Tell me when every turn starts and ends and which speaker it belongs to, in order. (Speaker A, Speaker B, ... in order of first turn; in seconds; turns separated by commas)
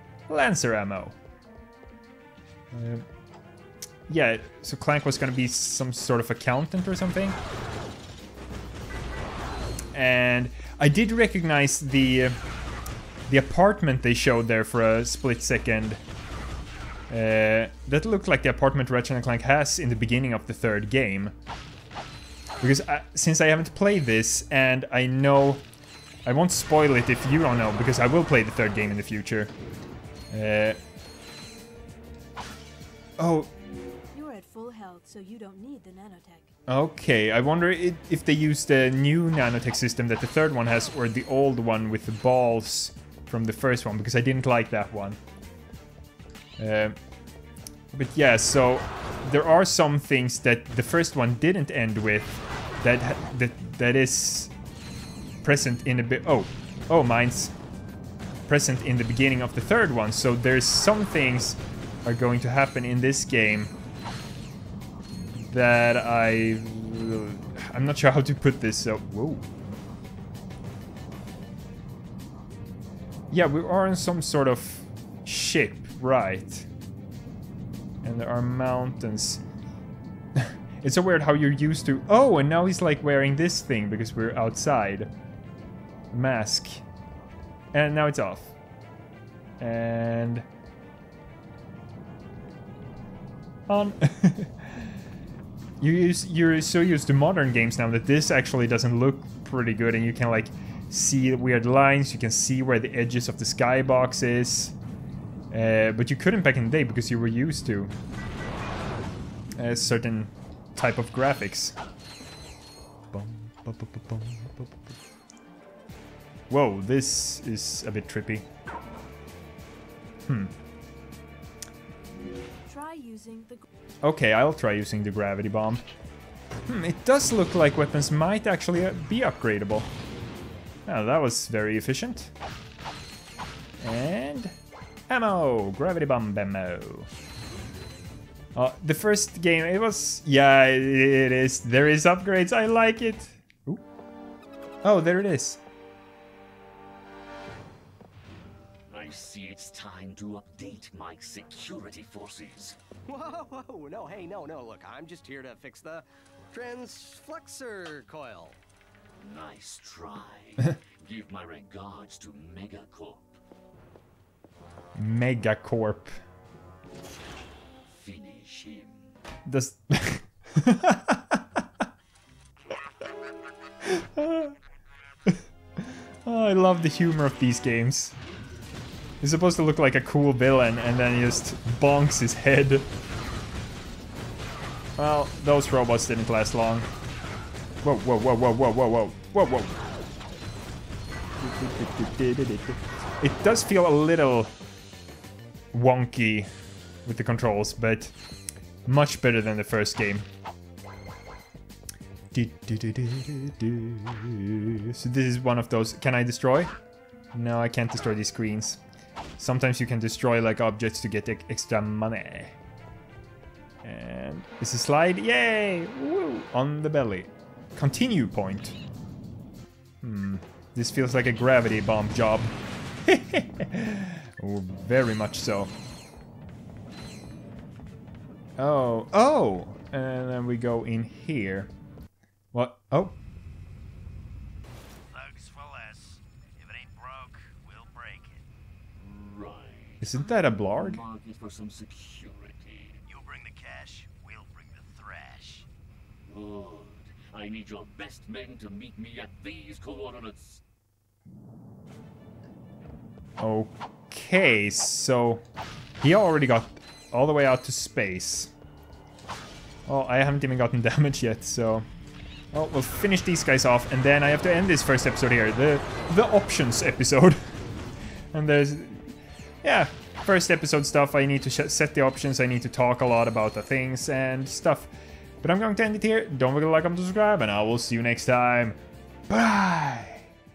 Speaker A: 0.3-1.2, Speaker A: 2.7-3.0, Speaker A: 4.1-7.4, Speaker A: 9.9-12.4, Speaker A: 13.3-16.0, Speaker A: 17.1-21.4, Speaker A: 22.6-25.7, Speaker A: 26.3-29.5, Speaker A: 30.3-30.8, Speaker A: 33.2-33.5, Speaker B: 34.1-36.5, Speaker A: 36.7-45.2, Speaker A: 46.6-47.0, Speaker A: 47.9-54.5, Speaker A: 55.4-57.5, Speaker A: 58.5-63.7, Speaker A: 65.4-69.5, Speaker A: 73.3-76.7, Speaker A: 78.0-79.4, Speaker A: 80.4-85.1, Speaker A: 86.1-86.8, Speaker A: 87.7-88.5, Speaker A: 89.6-90.5, Speaker A: 93.7-94.9, Speaker A: 95.8-104.8, Speaker A: 105.5-107.9, Speaker A: 109.6-111.8, Speaker A: 113.1-114.4, Speaker A: 116.5-118.5, Speaker A: 120.3-120.5, Speaker B: 122.7-123.6, Speaker A: 124.0-125.9, Speaker A: 126.7-129.9, Speaker A: 130.9-132.3, Speaker A: 133.8-134.6, Speaker A: 135.1-137.1, Speaker A: 138.6-143.8, Speaker A: 144.8-145.6, Speaker C: 148.9-152.8, Speaker D: 153.1-158.6, Speaker C: 159.2-163.3, Speaker A: 164.9-166.1, Speaker C: 167.9-169.2, Speaker A: 169.5-171.4, Speaker A: 173.8-174.6, Speaker A: 175.3-178.1, Speaker A: 179.2-182.9, Speaker A: 185.0-186.9, Speaker A: 187.8-189.7, Speaker A: 191.4-194.5, Speaker A: 195.7-196.5, Speaker A: 197.1-198.2, Speaker A: 198.9-200.3, Speaker A: 202.3-206.8, Speaker A: 207.3-208.8, Speaker A: 209.4-212.6, Speaker A: 213.8-218.8, Speaker A: 220.0-225.8, Speaker A: 228.6-231.7, Speaker A: 232.5-233.2, Speaker D: 235.1-238.4, Speaker C: 239.0-240.2, Speaker A: 240.0-241.0, Speaker C: 240.7-242.9, Speaker D: 243.1-245.6, Speaker C: 246.3-250.6, Speaker A: 253.4-255.4, Speaker A: 256.0-258.5, Speaker A: 259.9-261.9, Speaker A: 262.5-267.4, Speaker A: 268.3-278.8, Speaker A: 279.3-280.3